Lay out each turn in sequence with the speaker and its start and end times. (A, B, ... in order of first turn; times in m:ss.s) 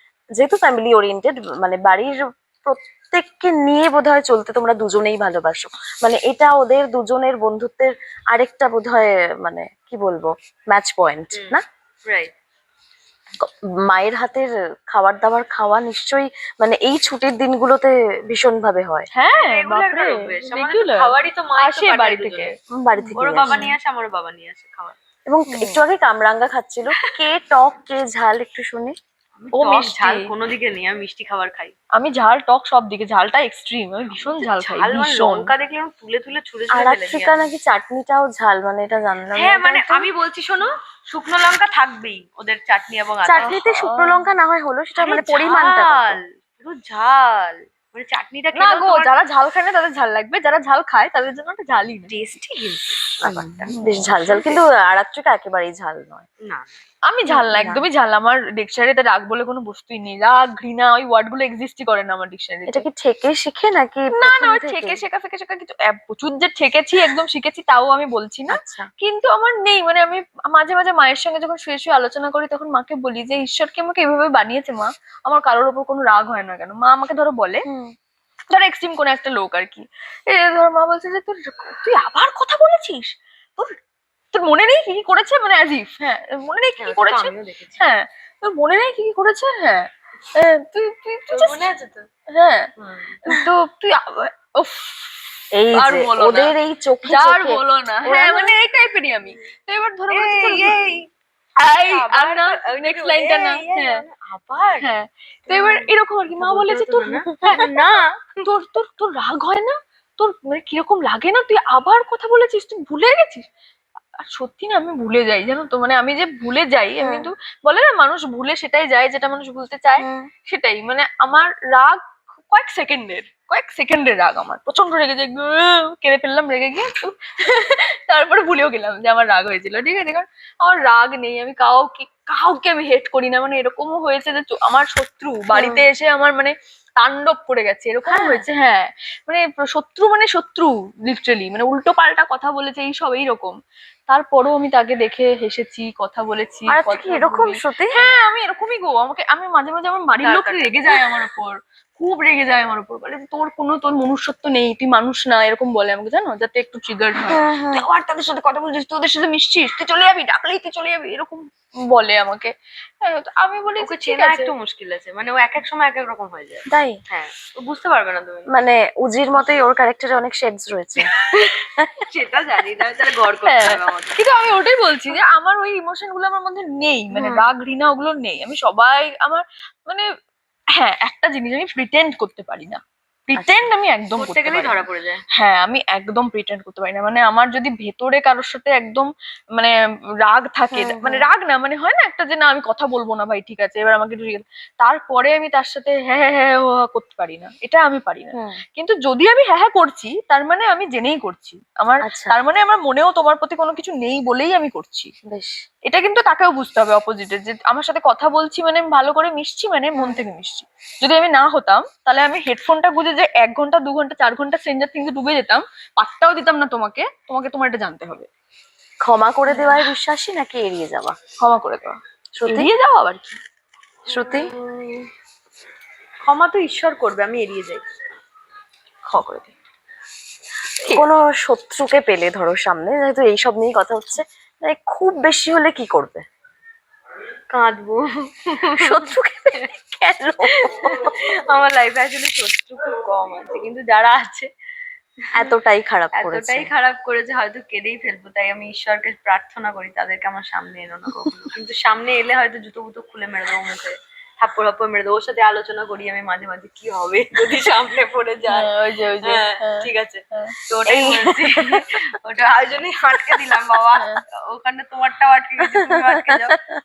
0:00.4-0:11.6 A
0:11.3-0:12.3 B
0:13.4-0:19.1 A
0:19.1-0:23.7 C
0:19.3-0:22.5 B
0:22.7-0:23.7 A
0:23.2-0:25.0 B
0:25.3-0:28.9 A
0:25.5-0:25.8 C
0:29.4-0:31.7 B
0:29.5-0:30.2 C
0:31.9-0:35.5 C
0:34.2-0:37.5 B
0:36.7-0:40.1 A
0:39.3-0:43.5 B
0:43.2-0:46.2 A
0:43.4-0:44.2 C
0:45.0-0:49.1 B
0:48.5-0:52.1 C
0:52.1-0:54.6 B
0:53.2-0:56.2 A
0:56.4-0:56.7 B
0:57.0-1:02.8 C
0:57.3-0:57.8 A
1:02.7-1:05.0 A
1:04.1-1:17.6 C
1:08.5-1:08.9 A
1:17.6-1:17.9 A
1:18.5-1:23.7 C
1:24.3-1:31.7 C
1:26.8-1:27.8 B
1:31.3-1:32.0 B
1:32.3-1:32.6 C
1:32.8-1:33.2 B
1:33.2-1:36.5 C
1:35.5-1:38.5 A
1:37.0-1:40.8 C
1:40.1-1:41.0 B
1:41.6-1:44.0 C
1:41.9-1:44.9 B
1:44.8-1:47.8 C
1:45.5-1:45.9 B
1:46.4-1:48.1 B
1:48.4-1:53.4 C
1:54.2-2:23.5 C
1:57.0-1:57.3 A
2:00.0-2:00.3 A
2:15.5-2:15.8 A
2:18.1-2:18.4 A
2:24.1-2:44.5 C
2:26.7-2:28.1 A
2:30.2-2:30.8 B
2:37.3-2:37.8 A
2:43.8-2:48.5 B
2:46.7-2:47.0 A
2:48.5-2:51.1 A
2:52.0-2:54.2 B
2:53.4-3:00.0 C
2:57.1-2:57.4 A
3:00.8-3:02.8 C
3:03.3-3:04.8 C
3:03.3-3:03.6 A
3:04.2-3:05.2 B
3:05.4-3:09.7 C
3:10.2-3:25.1 C
3:10.7-3:11.3 A
3:18.3-3:18.6 A
3:22.0-3:22.4 A
3:25.2-3:25.6 A
3:25.8-3:38.3 C
3:29.9-3:30.2 A
3:39.0-3:41.2 A
3:39.5-3:39.9 C
3:41.4-3:43.4 C
3:42.3-3:42.7 A
3:44.1-3:44.5 A
3:44.1-3:45.1 B
3:46.2-3:47.8 B
3:49.1-3:49.5 C
3:50.9-3:56.2 A
3:57.5-3:59.7 B
3:58.8-4:01.1 A
4:00.6-4:04.5 B
4:05.4-4:06.7 A
4:06.1-4:18.7 B
4:18.5-4:20.5 C
4:19.2-4:26.6 B
4:20.9-4:21.8 A
4:26.1-4:26.5 A